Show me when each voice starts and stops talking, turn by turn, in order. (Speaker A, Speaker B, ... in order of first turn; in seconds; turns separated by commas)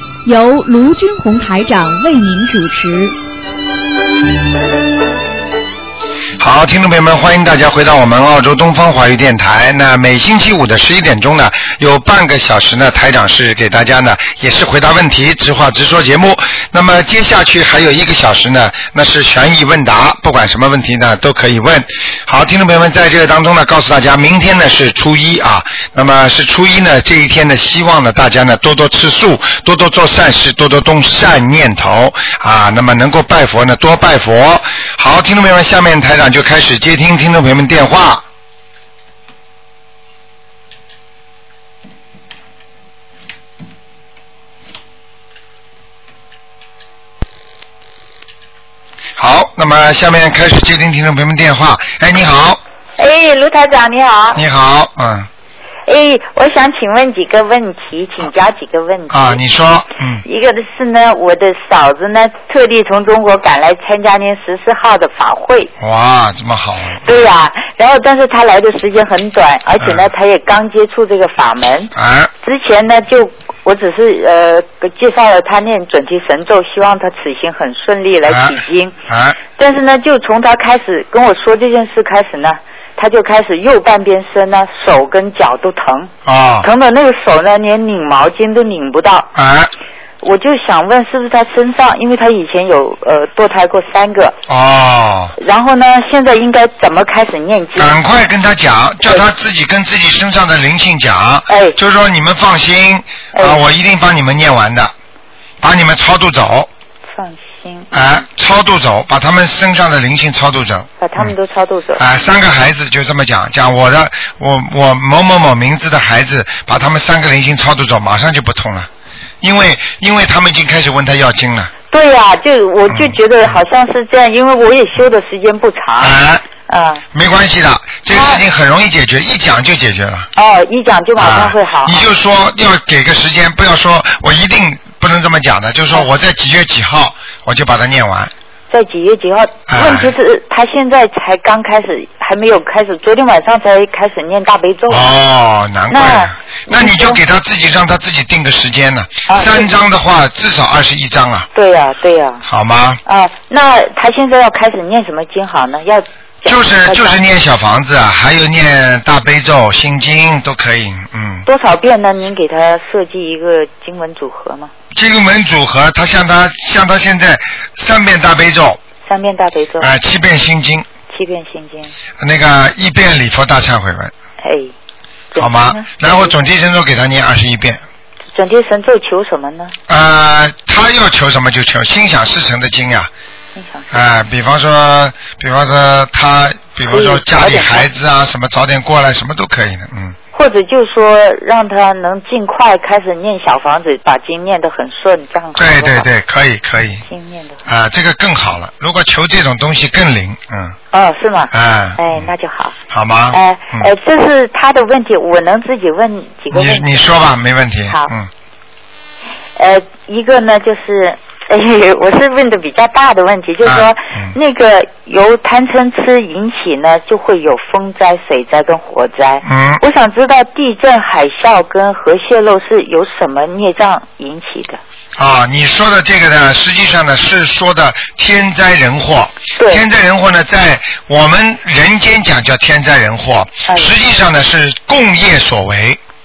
Speaker A: 0.2-3.1, Speaker B: 6.4-38.2, Speaker B: 49.2-52.6, Speaker C: 53.0-54.4, Speaker B: 54.3-55.3, Speaker C: 55.9-59.4, Speaker B: 59.1-60.2, Speaker C: 60.2-65.7, Speaker B: 65.8-67.1, Speaker C: 67.0-78.9, Speaker B: 71.9-72.3, Speaker B: 78.3-79.4, Speaker C: 79.5-86.1, Speaker B: 86.2-86.7, Speaker C: 86.6-89.3, Speaker B: 89.3-89.7, Speaker C: 90.2-94.4, Speaker B: 94.5-95.3, Speaker C: 95.4-97.9, Speaker B: 97.8-104.9, Speaker C: 101.5-101.8, Speaker C: 103.3-103.6, Speaker B: 105.6-106.7, Speaker C: 107.1-107.9, Speaker B: 107.9-111.3, Speaker C: 111.0-112.0, Speaker B: 112.0-118.9, Speaker B: 119.4-121.7, Speaker C: 121.9-126.2, Speaker B: 122.9-123.5, Speaker B: 126.0-126.4, Speaker C: 126.7-127.0, Speaker B: 127.1-130.3, Speaker C: 128.1-128.4, Speaker C: 130.3-132.0, Speaker B: 131.2-138.3, Speaker C: 138.7-145.1, Speaker B: 139.7-140.1, Speaker B: 144.9-151.5, Speaker C: 145.9-147.2, Speaker C: 149.3-149.7, Speaker C: 151.5-152.4, Speaker B: 152.4-153.0, Speaker C: 153.1-157.2, Speaker B: 156.4-161.4, Speaker C: 161.4-164.7, Speaker B: 164.9-168.8, Speaker C: 169.1-169.9, Speaker B: 169.8-170.8, Speaker C: 171.1-171.9, Speaker B: 172.2-174.1, Speaker C: 174.4-174.7, Speaker C: 175.3-176.4, Speaker B: 175.4-177.8, Speaker C: 178.3-179.8, Speaker B: 179.9-183.1, Speaker C: 183.5-183.9, Speaker B: 183.9-190.2, Speaker C: 186.9-187.9, Speaker C: 190.3-196.1, Speaker B: 195.6-197.0, Speaker C: 197.0-197.6, Speaker B: 197.7-200.8, Speaker C: 200.9-202.8, Speaker B: 201.5-202.3, Speaker B: 202.9-203.9, Speaker C: 203.3-207.0, Speaker B: 206.5-208.3, Speaker C: 209.6-224.8, Speaker B: 213.6-214.3, Speaker B: 219.4-219.8, Speaker B: 225.2-236.0, Speaker C: 229.6-229.8, Speaker C: 233.7-233.9